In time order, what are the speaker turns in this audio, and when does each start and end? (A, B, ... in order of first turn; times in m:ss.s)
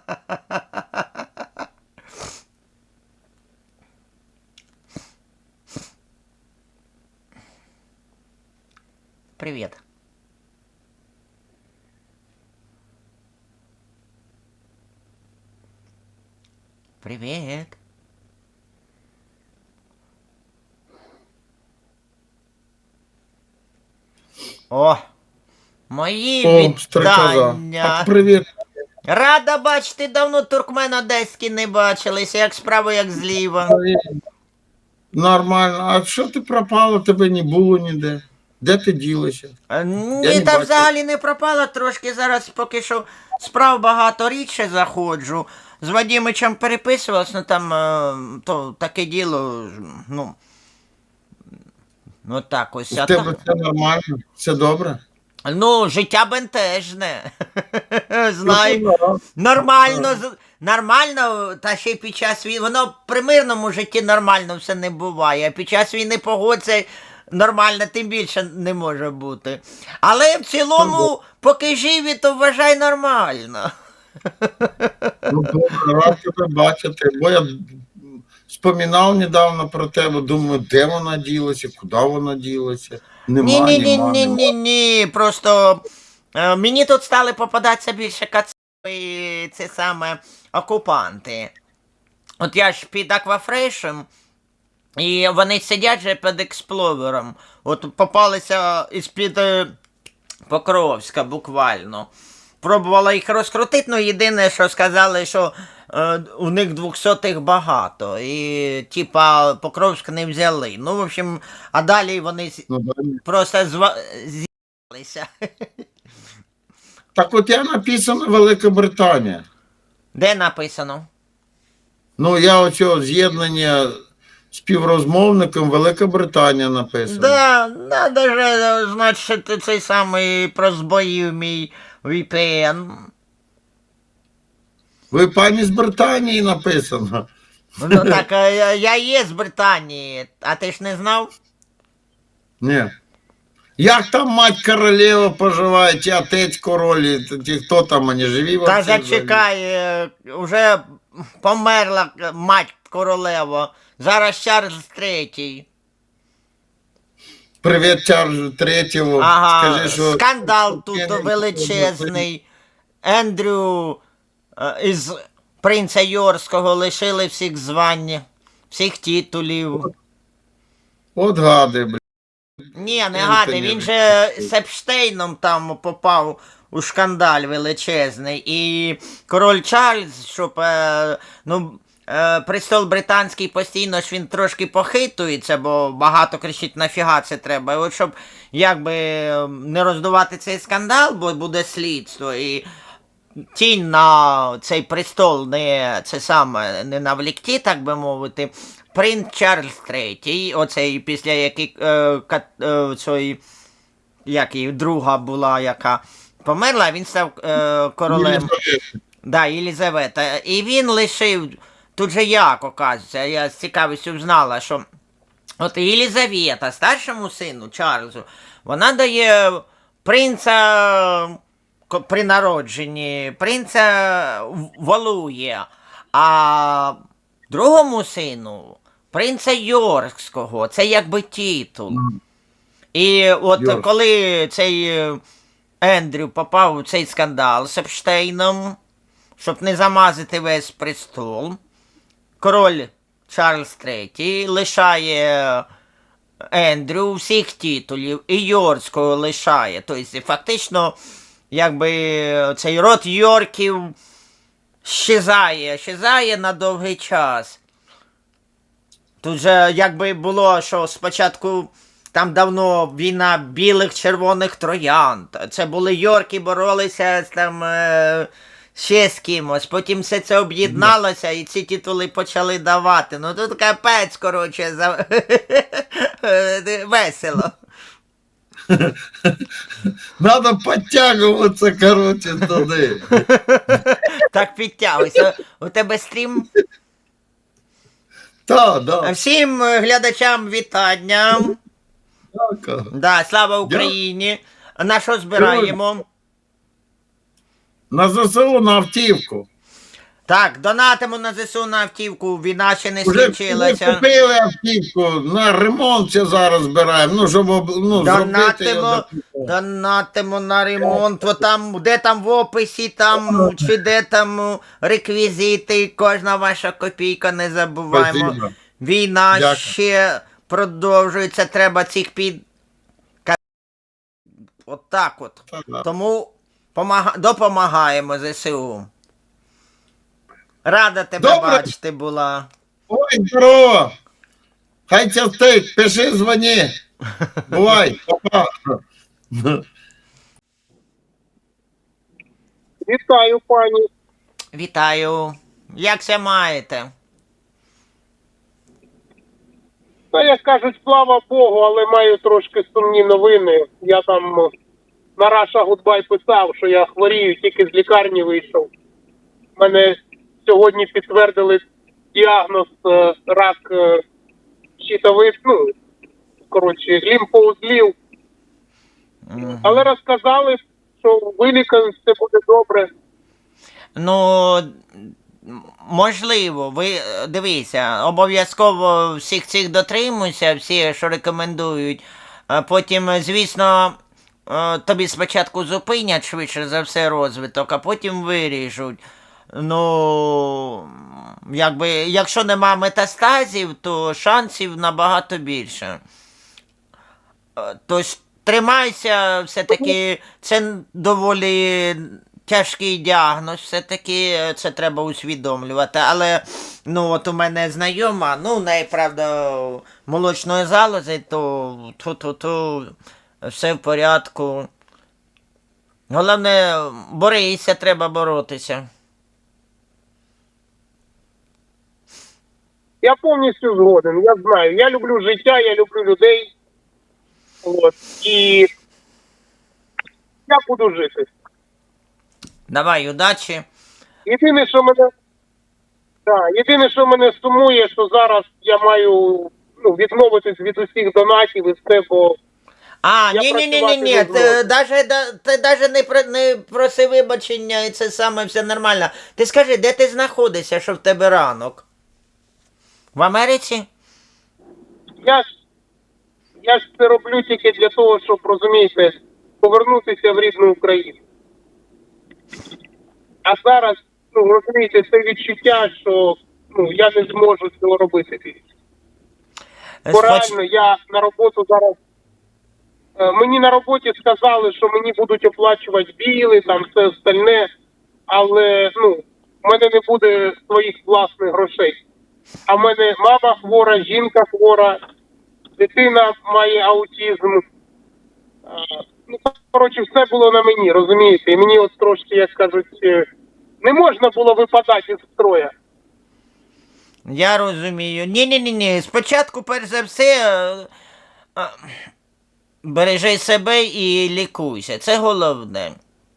0:00.5-0:01.0 A
0:09.4-0:09.8 A
0:17.0-0:17.8 A
0:24.7-0:25.0 A
0:25.9-0:28.1 A
0:26.4-0:28.4 B
0:29.1-0:33.7 A
0:33.6-0:34.0 B
0:35.1-0:39.5 B
0:39.7-0:50.3 A
0:40.2-0:40.9 B
0:52.2-0:53.3 A
0:52.9-0:55.0 B
0:55.4-0:58.8 A
0:58.4-0:59.2 B
0:59.4-1:13.7 A
0:59.8-1:00.1 B
1:10.8-1:11.1 B
1:14.4-1:15.1 A
1:15.3-1:24.5 B
1:23.4-1:25.8 A
1:26.4-1:31.5 A
1:32.4-1:34.0 A
1:35.0-1:39.7 A
1:40.5-1:42.1 A
1:42.6-1:52.7 A
1:52.7-1:53.2 B
1:53.2-1:55.6 A
1:57.2-1:59.4 B
2:00.1-2:01.1 A
2:02.2-2:03.9 B
2:04.5-2:07.4 B
2:07.1-2:13.1 A
2:15.1-2:17.2 B
2:17.8-2:21.3 A
2:17.9-2:18.2 B
2:22.6-2:22.9 B
2:23.8-2:29.4 B
2:28.6-2:35.6 A
2:37.6-2:42.2 B
2:39.2-2:42.4 A
2:43.0-2:44.0 A
2:44.6-2:49.9 A
2:51.2-2:52.0 B
2:52.8-3:12.6 A
2:53.1-2:54.4 B
3:13.5-3:23.4 A
3:24.3-3:28.5 A
3:28.1-3:28.8 B
3:29.2-3:34.8 A
3:35.6-3:41.4 A
3:41.9-3:47.0 A
3:47.5-3:52.0 A
3:51.9-3:52.2 B
3:52.9-3:55.2 A
3:53.6-3:53.8 B
3:55.8-3:58.8 A
3:59.4-4:01.6 A
4:02.4-4:05.6 A
4:06.5-4:10.9 A
4:11.5-4:13.9 A
4:14.8-4:17.6 A
4:19.2-4:37.6 A
4:30.6-4:30.9 B
4:38.7-4:39.4 B
4:40.2-4:43.2 B
4:43.3-4:46.5 A
4:48.4-4:49.1 B
4:49.0-4:51.6 A
4:52.3-4:52.9 B
4:52.9-4:56.0 A
4:53.6-4:53.9 B
4:55.4-4:55.8 B
4:57.9-4:59.4 B
5:00.3-5:04.0 A
5:03.0-5:09.5 B
5:07.9-5:22.4 A
5:13.2-5:13.7 B
5:17.9-5:18.5 B
5:19.3-5:19.7 B
5:24.6-5:28.9 A
5:25.5-5:25.8 B
5:30.6-5:32.5 A
5:31.2-5:31.7 B
5:32.9-5:33.9 B
5:34.9-5:36.7 B
5:37.5-5:38.5 B
5:39.3-5:39.6 B
5:42.9-5:43.8 C
5:44.5-5:46.9 A
5:50.1-5:54.5 C
5:55.2-5:58.7 C
5:59.6-5:59.9 C
6:00.4-6:01.6 C
6:02.1-6:04.0 C
6:04.8-6:05.7 C
6:06.5-6:07.9 C
6:09.3-6:09.8 A
6:09.4-6:12.9 C
6:13.9-6:24.0 A
6:24.5-6:29.0 A
6:29.5-6:36.0 A
6:37.6-6:54.7 A
6:56.1-6:58.8 A
7:03.0-7:06.5 C
7:07.6-7:08.7 C
7:10.5-7:11.3 C
7:12.7-7:13.6 A
7:14.2-7:15.0 C
7:16.3-7:22.3 C
7:23.0-7:31.8 A
7:23.3-7:24.6 C
7:33.1-7:33.9 A
7:36.6-7:41.2 C
7:43.4-7:48.6 C
7:50.0-7:50.5 A
7:50.1-7:51.9 C
7:53.2-7:57.6 C
7:58.3-8:02.0 C
8:02.7-8:05.0 C
8:05.8-8:07.6 C
8:08.7-8:13.2 C
8:13.8-8:15.7 C
8:17.2-8:20.9 A
8:21.6-8:21.9 A
8:22.8-8:26.0 A